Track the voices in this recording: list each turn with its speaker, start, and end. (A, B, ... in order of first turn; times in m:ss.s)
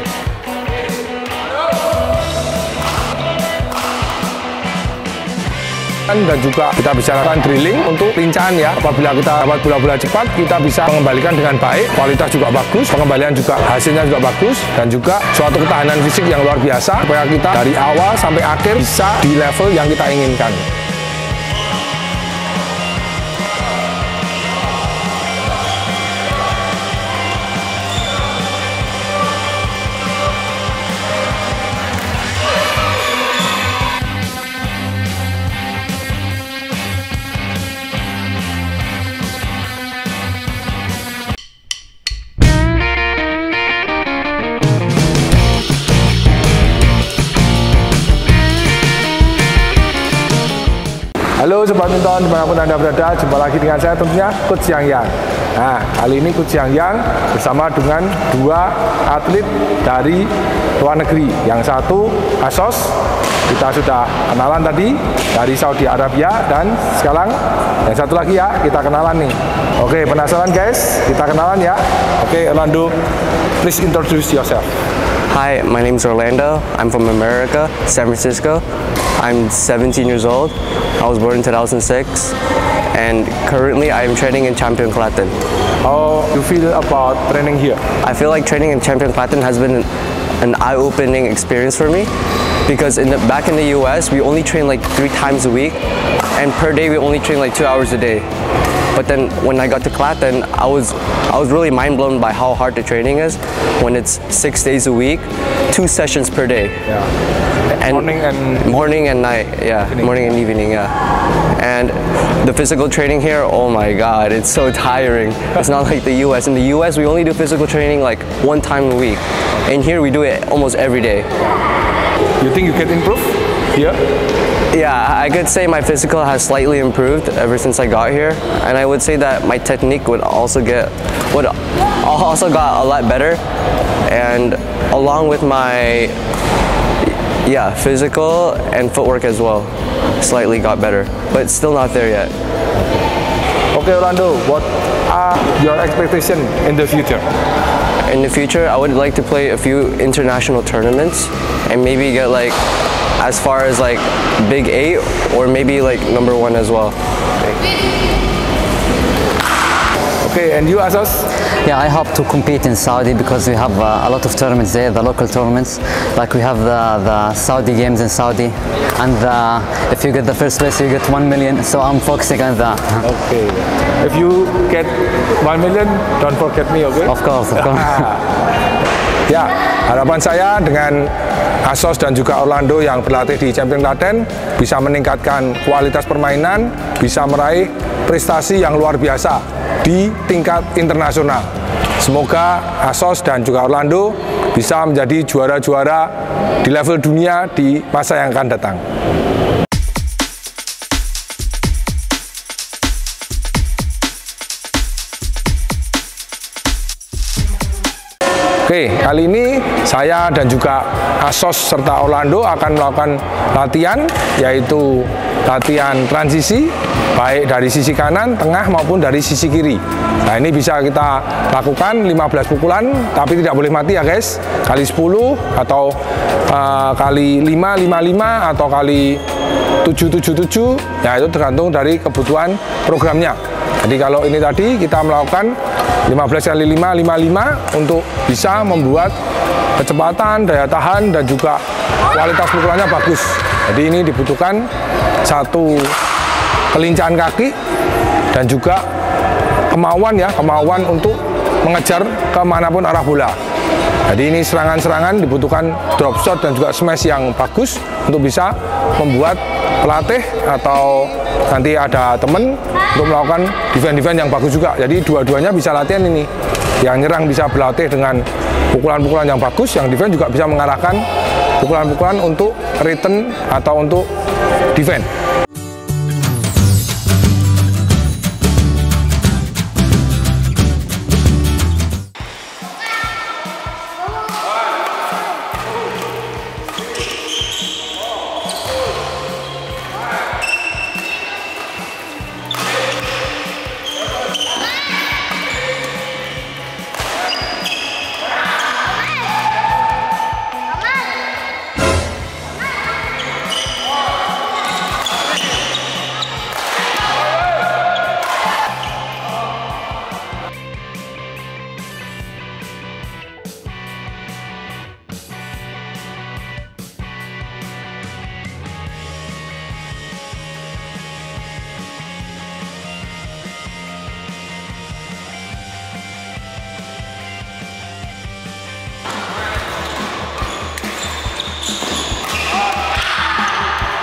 0:06.0-0:20.6 A
0:51.4-1:03.0 A
1:03.5-1:12.9 A
1:13.6-1:14.7 A
1:15.3-1:18.6 B
1:19.2-1:22.4 B
1:22.9-1:25.3 B
1:25.8-1:27.8 A
1:28.0-1:29.9 B
1:30.4-1:32.1 B
1:32.7-1:35.8 B
1:36.4-1:38.2 B
1:38.9-1:46.8 B
1:47.7-1:49.0 A
1:47.8-1:50.9 B
1:49.9-1:50.3 A
1:51.6-2:01.3 B
2:02.4-2:04.0 A
2:04.7-2:13.4 B
2:14.1-2:16.2 B
2:17.4-2:22.3 B
2:23.7-2:27.2 A
2:28.0-2:32.6 B
2:33.2-2:37.0 B
2:40.2-2:41.3 A
2:41.6-2:53.0 C
2:53.0-2:57.1 A
2:57.1-2:58.1 C
2:57.7-2:58.2 A
2:59.3-3:01.1 A
3:01.6-3:11.5 A
3:12.0-3:16.1 A
3:16.6-3:18.8 A
3:28.6-3:45.9 A
3:46.5-3:49.2 A
3:49.8-3:55.6 A
3:56.1-3:59.1 A
3:59.8-4:04.7 A
4:05.2-4:06.0 A
4:06.7-4:07.5 A
4:08.3-4:08.8 A
4:09.7-4:13.4 A
4:14.1-4:26.3 A
4:26.8-4:31.0 A
4:31.6-4:34.1 A
4:34.7-4:35.1 A